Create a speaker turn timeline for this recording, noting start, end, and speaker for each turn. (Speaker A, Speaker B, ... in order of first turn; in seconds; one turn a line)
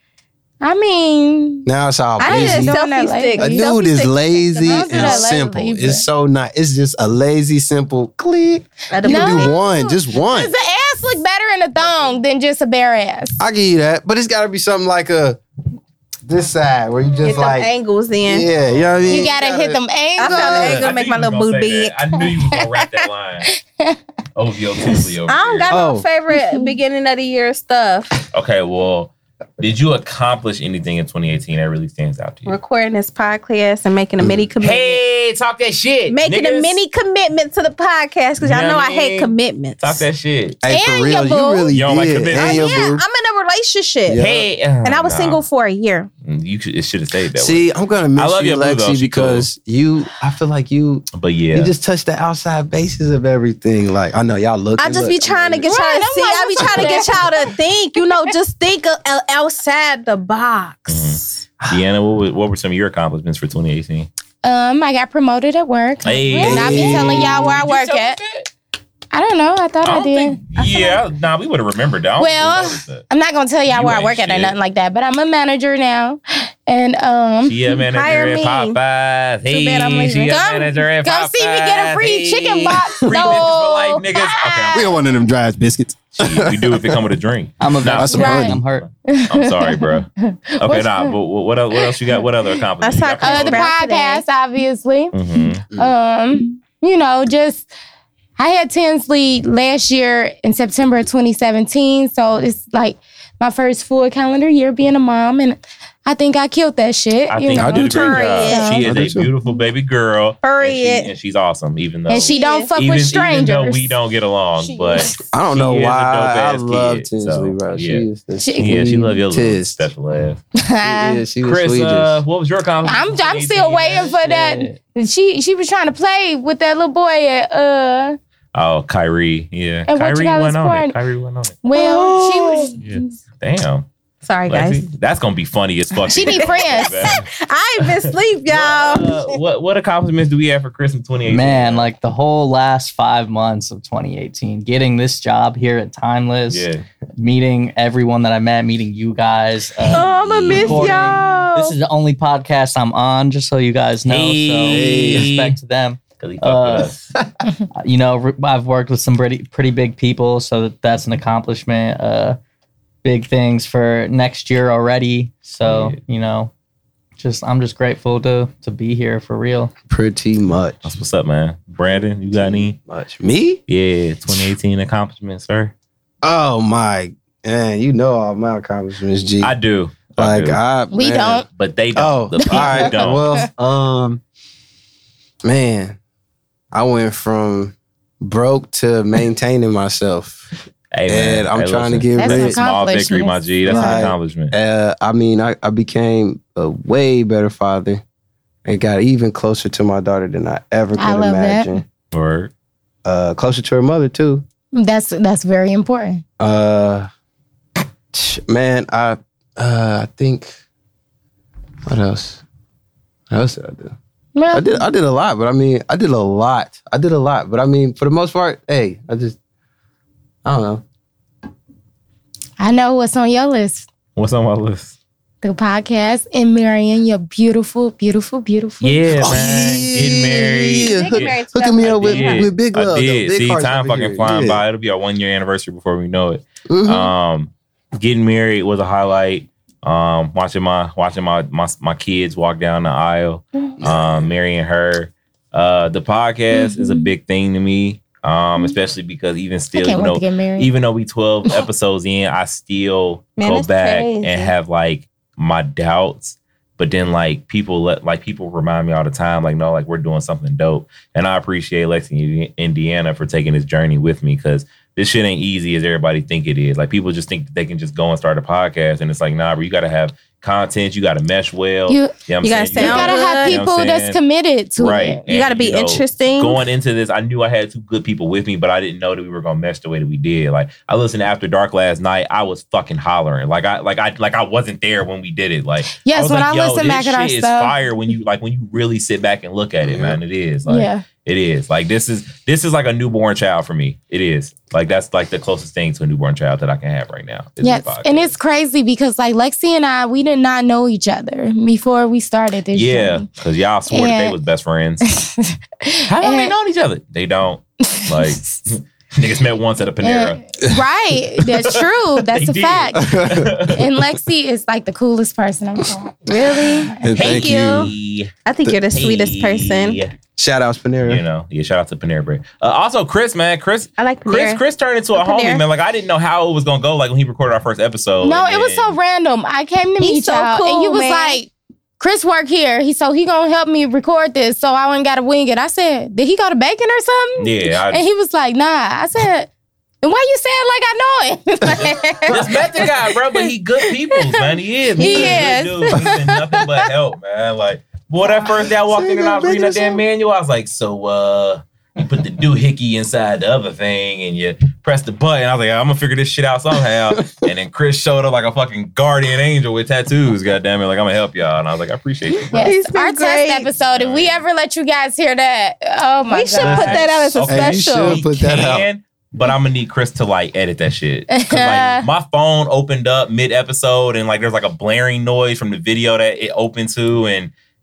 Speaker A: 0.6-1.7
Speaker B: 1.6-2.8
Speaker A: 2.2-3.7
Speaker C: 2.2-5.3
Speaker B: 3.4-10.5
Speaker A: 4.7-6.0
Speaker C: 8.9-9.6
Speaker A: 9.0-13.4
Speaker B: 13.4-15.4
Speaker B: 16.3-17.7
Speaker C: 17.2-18.5
Speaker B: 18.2-20.9
Speaker D: 18.6-19.3
Speaker A: 19.1-20.8
Speaker C: 20.2-22.3
Speaker D: 20.5-23.5
Speaker D: 24.4-25.9
Speaker C: 24.9-28.2
Speaker B: 25.7-26.1
Speaker A: 26.3-26.7
Speaker D: 28.3-32.5
Speaker C: 32.5-35.0
Speaker B: 34.2-34.5
Speaker D: 34.6-36.8
Speaker C: 36.1-40.0
Speaker D: 38.4-40.6
Speaker B: 40.6-43.0
Speaker A: 40.7-41.7
Speaker D: 41.7-42.9
Speaker C: 42.3-44.2
Speaker B: 44.0-44.5
Speaker D: 44.2-45.4
Speaker C: 44.8-46.1
Speaker D: 46.2-49.5
Speaker B: 47.4-55.8
Speaker D: 51.1-51.7
Speaker C: 54.8-61.4
Speaker A: 55.6-57.5
Speaker B: 56.6-57.0
Speaker D: 60.9-64.1
Speaker A: 64.4-68.2
Speaker D: 66.0-68.5
Speaker C: 66.2-66.9
Speaker B: 66.4-67.5
Speaker A: 69.1-70.4
Speaker D: 69.8-73.0
Speaker C: 70.6-71.0
Speaker A: 72.2-77.7
Speaker D: 73.7-74.6
Speaker D: 77.4-85.0
Speaker C: 77.7-78.8
Speaker C: 79.5-80.3
Speaker A: 80.2-85.0
Speaker B: 83.0-83.3
Speaker B: 84.7-87.0
Speaker D: 86.2-93.7
Speaker E: 87.6-88.9
Speaker B: 88.0-88.6
Speaker A: 88.1-88.5
Speaker A: 89.0-91.2
Speaker C: 92.8-94.2
Speaker A: 93.2-97.7
Speaker D: 95.1-95.7
Speaker A: 98.4-108.9
Speaker D: 107.3-118.1
Speaker B: 107.6-108.1
Speaker C: 107.7-108.8
Speaker B: 108.8-109.3
Speaker C: 110.4-111.1
Speaker A: 112.1-114.0
Speaker C: 112.3-112.7
Speaker C: 114.6-115.2
Speaker B: 115.3-119.9
Speaker A: 118.4-118.9
Speaker D: 118.6-120.4
Speaker A: 120.6-121.2
Speaker B: 120.8-122.2
Speaker D: 121.4-124.3
Speaker A: 122.8-128.2
Speaker E: 124.2-124.8
Speaker D: 128.5-131.6
Speaker A: 129.9-131.0
Speaker A: 131.6-133.2
Speaker C: 131.8-132.7
Speaker D: 132.8-133.9
Speaker C: 134.2-134.9
Speaker D: 134.5-137.3
Speaker A: 136.1-137.1
Speaker C: 136.3-139.4
Speaker D: 137.8-141.9
Speaker E: 141.3-146.7
Speaker D: 146.5-146.8
Speaker E: 147.2-156.9
Speaker C: 149.8-151.7
Speaker D: 150.0-151.1
Speaker D: 154.1-155.6
Speaker B: 154.6-155.3
Speaker D: 156.2-157.1
Speaker E: 157.8-162.4
Speaker E: 163.0-166.5
Speaker D: 165.6-166.0
Speaker E: 167.2-169.7
Speaker B: 169.9-170.8
Speaker D: 170.8-172.8
Speaker B: 172.3-173.6
Speaker D: 173.7-175.7
Speaker B: 176.2-179.6
Speaker D: 179.4-180.6
Speaker B: 180.2-184.2
Speaker A: 180.9-181.5
Speaker D: 181.6-183.4
Speaker A: 182.4-183.2
Speaker B: 185.4-186.0
Speaker B: 186.7-190.5
Speaker D: 190.9-194.5
Speaker B: 191.1-192.6
Speaker A: 192.2-194.1
Speaker B: 193.7-198.0
Speaker B: 198.7-201.8
Speaker A: 201.0-201.8
Speaker D: 202.1-202.5
Speaker B: 203.1-204.5
Speaker A: 204.7-206.2
Speaker B: 206.4-207.1
Speaker B: 208.1-210.5
Speaker B: 211.9-212.4
Speaker B: 213.3-214.0
Speaker A: 214.3-214.8
Speaker B: 214.5-219.4
Speaker B: 220.4-220.8
Speaker A: 222.6-223.9
Speaker D: 224.2-224.9
Speaker A: 225.4-229.3
Speaker D: 228.8-274.2
Speaker B: 229.1-234.6
Speaker C: 230.8-232.5
Speaker B: 236.7-237.1
Speaker B: 243.8-244.3
Speaker A: 246.6-247.1
Speaker A: 249.7-250.7
Speaker C: 253.4-254.6
Speaker A: 271.9-272.1
Speaker C: 272.4-273.6
Speaker A: 272.7-275.2
Speaker D: 274.8-298.4
Speaker C: 275.3-276.6
Speaker A: 285.9-287.8
Speaker B: 289.8-290.2
Speaker A: 290.7-291.1
Speaker A: 297.6-303.3
Speaker D: 302.7-305.1
Speaker A: 303.9-304.4
Speaker A: 305.0-306.6
Speaker D: 306.1-310.4
Speaker A: 307.9-308.5
Speaker A: 310.0-316.2
Speaker D: 311.6-313.9
Speaker B: 313.0-313.7
Speaker B: 316.3-317.9
Speaker C: 316.3-317.9
Speaker D: 317.1-318.3
Speaker C: 318.4-320.0
Speaker D: 318.9-320.1
Speaker B: 320.4-321.2
Speaker D: 321.0-329.0
Speaker C: 324.0-324.6
Speaker C: 325.1-325.6
Speaker A: 328.2-339.5
Speaker C: 330.0-331.4
Speaker D: 337.4-338.1
Speaker A: 340.0-342.9
Speaker D: 342.3-362.7
Speaker A: 345.0-346.9
Speaker C: 345.0-345.4
Speaker B: 348.7-350.0
Speaker B: 357.1-357.5
Speaker A: 362.4-367.1
Speaker C: 362.6-363.7
Speaker D: 363.9-364.4
Speaker C: 366.3-368.2
Speaker D: 366.6-377.5
Speaker B: 367.4-368.9
Speaker A: 371.3-372.1